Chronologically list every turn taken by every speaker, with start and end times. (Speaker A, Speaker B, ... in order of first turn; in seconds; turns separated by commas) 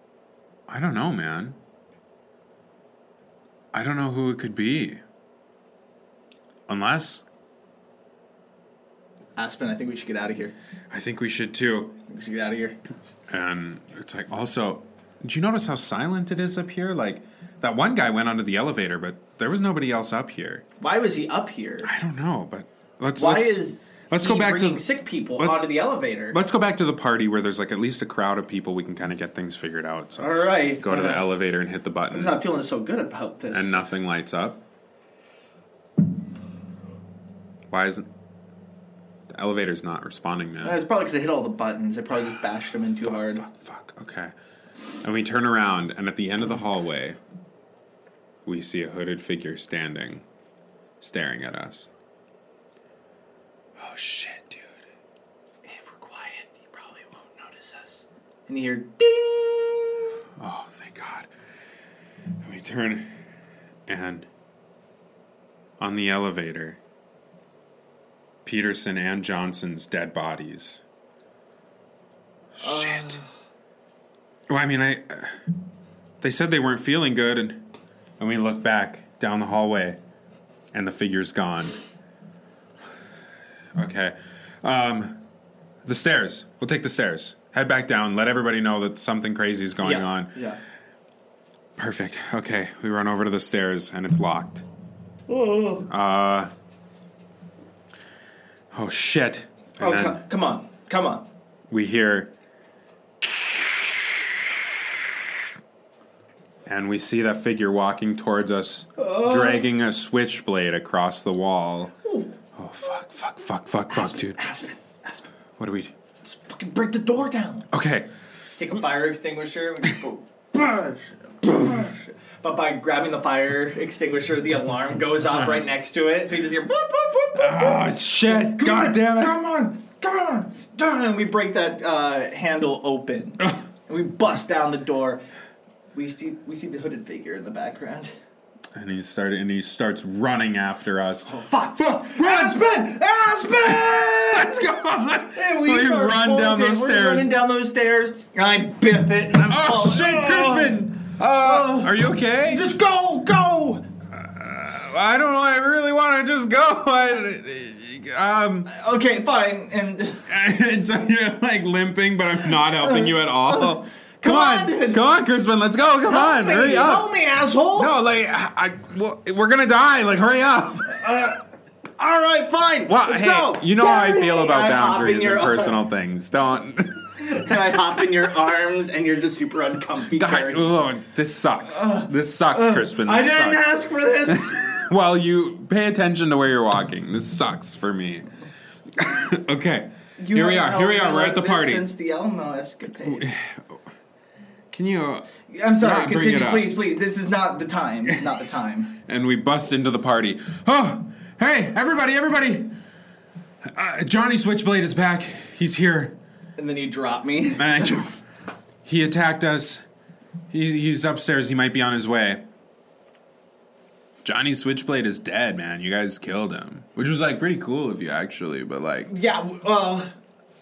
Speaker A: 0.7-1.6, Speaker A: 3.7-5.0, Speaker A: 6.7-7.2, Speaker B: 9.3-10.5, Speaker A: 10.9-12.0, Speaker B: 12.1-12.8, Speaker A: 13.3-20.6, Speaker B: 20.8-21.9, Speaker A: 21.8-24.9, Speaker B: 23.2-26.4, Speaker A: 25.4-25.7, Speaker A: 26.3-32.4, Speaker B: 30.2-31.2, Speaker B: 32.1-33.8, Speaker A: 33.5-34.6, Speaker A: 37.7-38.1, Speaker A: 39.3-40.8, Speaker B: 40.6-43.4, Speaker A: 43.1-44.3, Speaker A: 45.0-47.2, Speaker A: 48.5-50.2, Speaker A: 51.0-51.9, Speaker A: 53.8-54.7, Speaker B: 55.6-60.1, Speaker A: 60.4-61.3, Speaker A: 62.4-63.1, Speaker A: 63.9-64.3, Speaker A: 65.8-66.8, Speaker A: 68.4-70.8, Speaker A: 72.5-73.2, Speaker B: 72.6-73.2, Speaker A: 74.5-75.4, Speaker A: 76.2-77.7, Speaker A: 78.2-80.0, Speaker A: 80.7-81.8, Speaker A: 83.8-85.2, Speaker A: 85.8-90.3, Speaker B: 89.8-90.6, Speaker A: 91.8-94.6, Speaker B: 95.3-95.9, Speaker A: 95.9-96.5, Speaker A: 98.7-100.2, Speaker B: 99.8-101.3, Speaker A: 101.7-102.3, Speaker A: 103.2-104.5, Speaker A: 106.7-111.9, Speaker B: 109.0-109.7, Speaker B: 112.0-112.3, Speaker A: 112.5-114.4, Speaker B: 113.9-115.3, Speaker A: 115.6-115.9, Speaker B: 116.2-117.7, Speaker A: 117.7-118.1, Speaker B: 118.6-135.2, Speaker A: 127.3-129.4, Speaker B: 135.9-138.1, Speaker A: 138.7-142.7, Speaker B: 141.3-144.6, Speaker A: 143.7-147.3, Speaker B: 145.3-153.9, Speaker A: 149.5-152.7, Speaker A: 154.1-158.7, Speaker B: 158.7-160.2, Speaker A: 160.3-167.1, Speaker B: 162.8-165.0, Speaker B: 166.0-167.9, Speaker A: 167.8-171.1, Speaker B: 171.0-171.4, Speaker B: 172.0-175.8, Speaker A: 172.9-177.2, Speaker B: 177.2-180.8, Speaker A: 180.1-183.7, Speaker B: 181.7-184.8, Speaker A: 184.3-188.3, Speaker A: 188.9-191.9, Speaker B: 190.2-193.3, Speaker A: 193.1-193.8, Speaker A: 194.7-196.7, Speaker B: 195.5-199.0, Speaker A: 199.1-202.7, Speaker A: 203.7-206.2, Speaker B: 206.6-208.0, Speaker A: 207.6-208.2, Speaker A: 208.8-209.8, Speaker A: 210.5-212.4, Speaker A: 214.2-219.1, Speaker B: 219.1-220.1